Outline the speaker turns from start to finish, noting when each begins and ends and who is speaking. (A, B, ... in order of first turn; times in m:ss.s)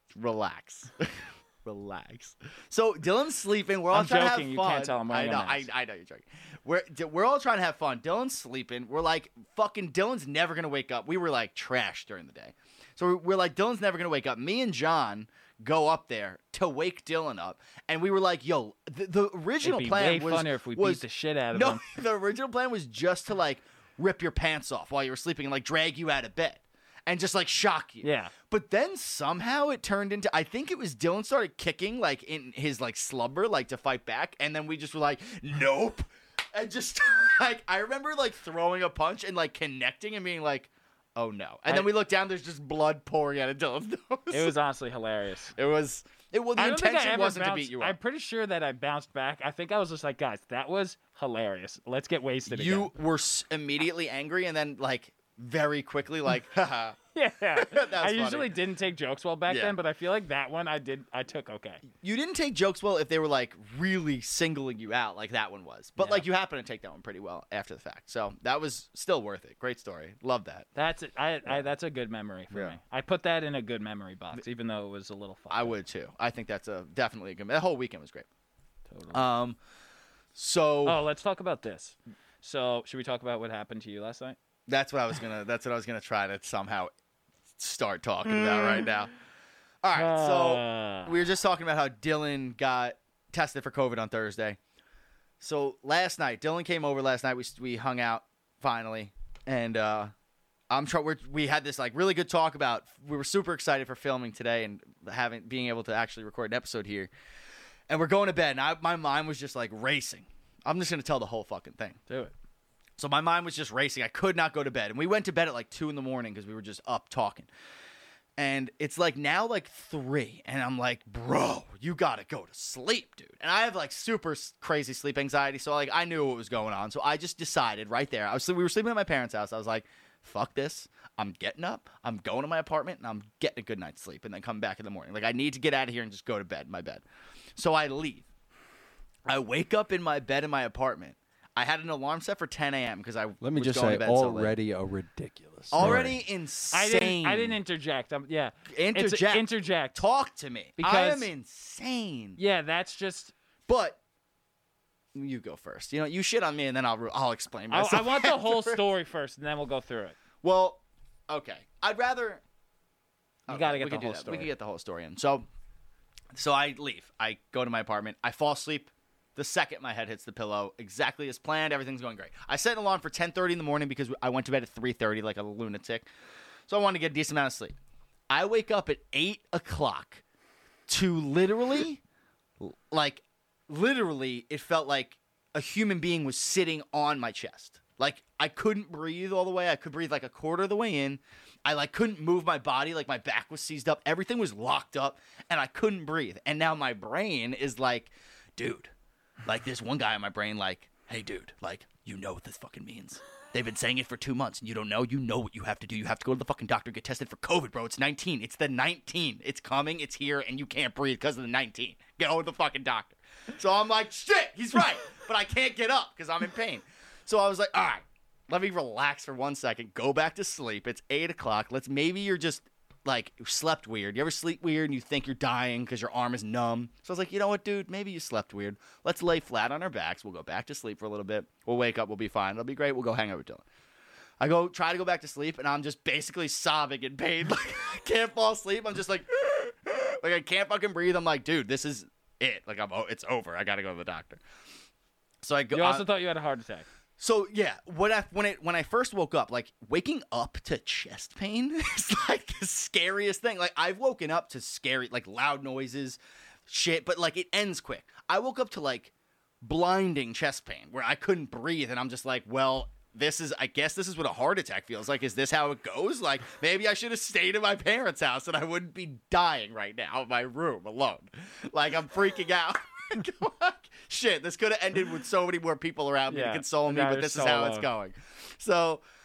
0:00.1-0:44.5 A
0:03.9-0:05.7 B
0:19.6-0:21.8 B
0:28.0-0:28.3 B
0:44.3-0:45.5 B
0:45.5-0:48.0 A
0:46.6-0:52.9 B
0:52.5-0:57.0 A
0:57.1-1:01.8 B
0:57.5-0:58.5 A
0:59.5-0:59.8 A
1:01.9-1:10.7 A
1:06.0-1:06.2 B
1:10.8-1:15.8 B
1:12.5-1:12.8 A
1:15.5-1:18.3 A
1:18.9-1:19.2 B
1:19.1-1:19.6 A
1:20.3-1:21.0 A
1:20.8-1:24.4 B
1:24.7-1:26.9 A
1:27.6-1:29.1 A
1:29.8-1:34.6 A
1:30.0-1:31.1 B
1:35.4-1:40.1 A
1:40.7-1:47.1 A
1:47.9-1:52.0 A
1:52.1-1:52.3 B
1:53.0-1:57.5 A
1:58.4-2:17.0 A
2:17.6-2:18.3 A
2:19.3-2:24.5 A
2:23.4-2:26.2 C
2:25.7-2:27.6 A
2:25.8-2:26.1 B
2:26.7-2:30.0 B
2:28.7-2:32.4 A
2:30.8-2:31.3 B
2:32.4-2:33.3 B
2:33.7-2:34.0 A
2:35.1-2:38.8 A
2:37.7-2:40.2 B
2:40.4-2:42.4 A
2:43.5-2:45.4 A
2:43.5-2:44.5 B
2:46.3-2:56.1 A
2:56.7-2:57.8 A
2:58.3-3:00.2 A
3:00.9-3:02.0 A
3:02.6-3:18.9 A
3:19.4-3:53.6 A
3:54.4-4:04.4 A
4:05.4-4:06.1 A
4:05.7-4:06.9 B
4:07.2-4:19.1 A
4:19.6-4:39.0 A
4:36.3-4:37.9 B